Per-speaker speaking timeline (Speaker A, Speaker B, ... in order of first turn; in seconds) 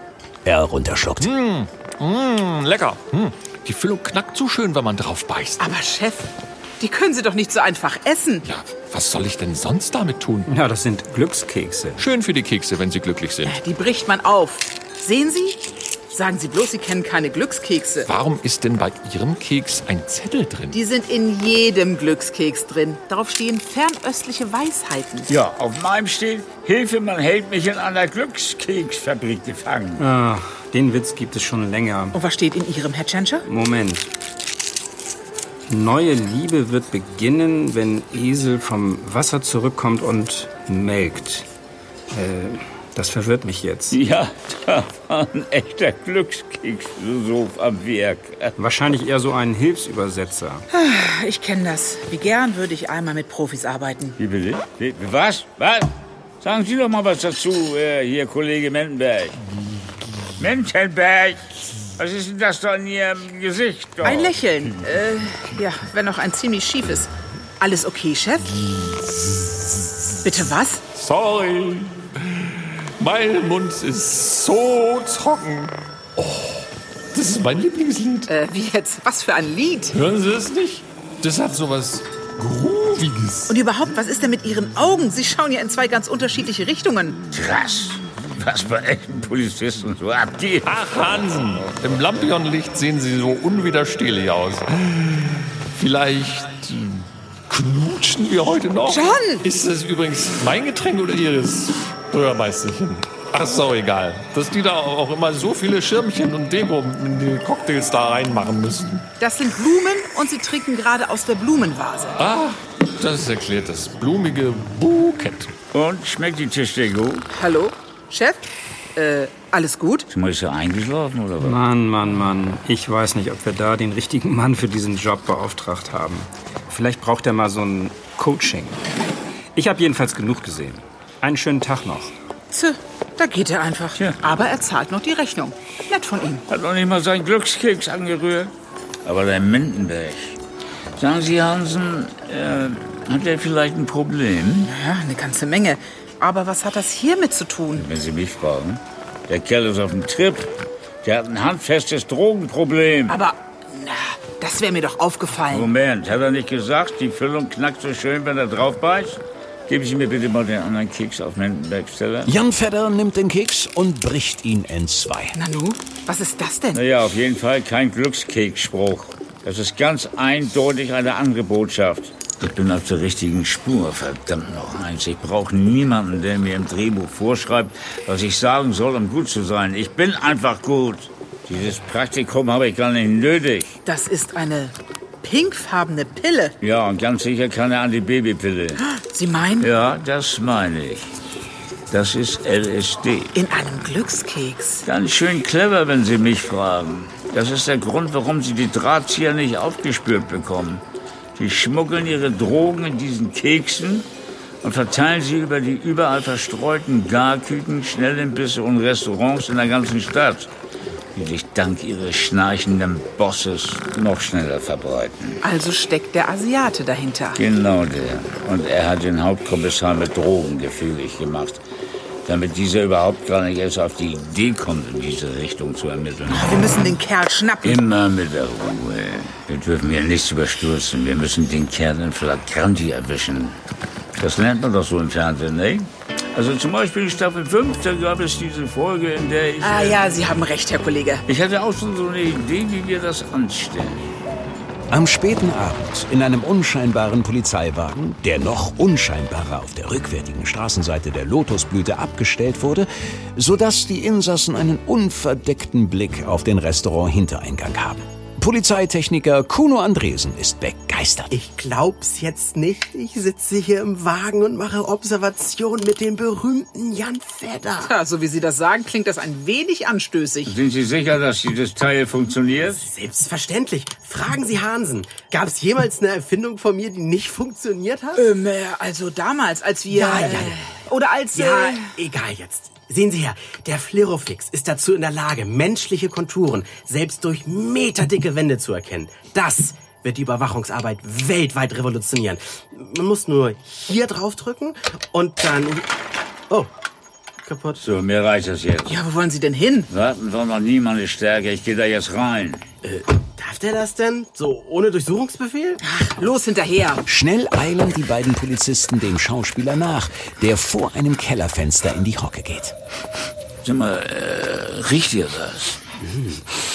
Speaker A: 0.5-1.3, 162.3-165.3, 244.9-261.3, 307.1-312.8
Speaker B: 1.2-5.6, 8.4-10.5, 12.0-13.6, 18.1-20.8, 71.0-78.3, 79.9-83.5, 90.7-109.0, 112.2-115.5
Speaker C: 5.6-8.4, 13.4-18.1, 20.7-25.3, 32.1-33.5, 50.7-54.2, 64.0-68.5, 70.2-70.8, 78.3-80.0, 83.5-87.2, 98.9-99.5, 109.2-112.2, 117.3-120.1, 132.5-136.4, 144.7-147.9, 153.1-155.7, 165.3-166.8, 183.8-186.5, 188.8-189.7, 193.3-194.8, 215.4-217.4, 226.3-227.8, 239.6-241.2, 267.8-270.5, 278.2-281.9, 298.9-299.9, 305.8-307.0
Speaker D: 10.5-12.0, 30.0-32.2, 33.5-34.1, 35.7-41.5, 42.1-44.0, 48.6-50.7, 121.4-128.8, 129.6-132.1
Speaker E: 25.3-30.0, 43.9-48.5, 54.2-59.4, 60.4-64.4, 87.3-90.7, 115.7-117.3, 120.1-121.6, 136.5-138.5, 139.1-140.4, 141.0-144.7, 147.8-150.5, 151.0-153.2, 155.5-162.3, 166.7-183.8, 186.6-188.8, 189.6-191.2, 191.9-193.3, 194.9-200.8, 201.4-204.1, 204.6-210.5, 211.2-215.4, 217.4-221.6, 222.2-226.7, 227.6-233.6, 234.2-240.1, 241.3-244.1, 270.5-272.9, 297.8-299.0, 299.9-302.7, 313.6-315.8
Speaker F: 261.3-267.9, 272.7-278.3, 279.9-280.6, 281.3-295.9, 297.4-297.8, 302.8-305.8, 316.0-316.5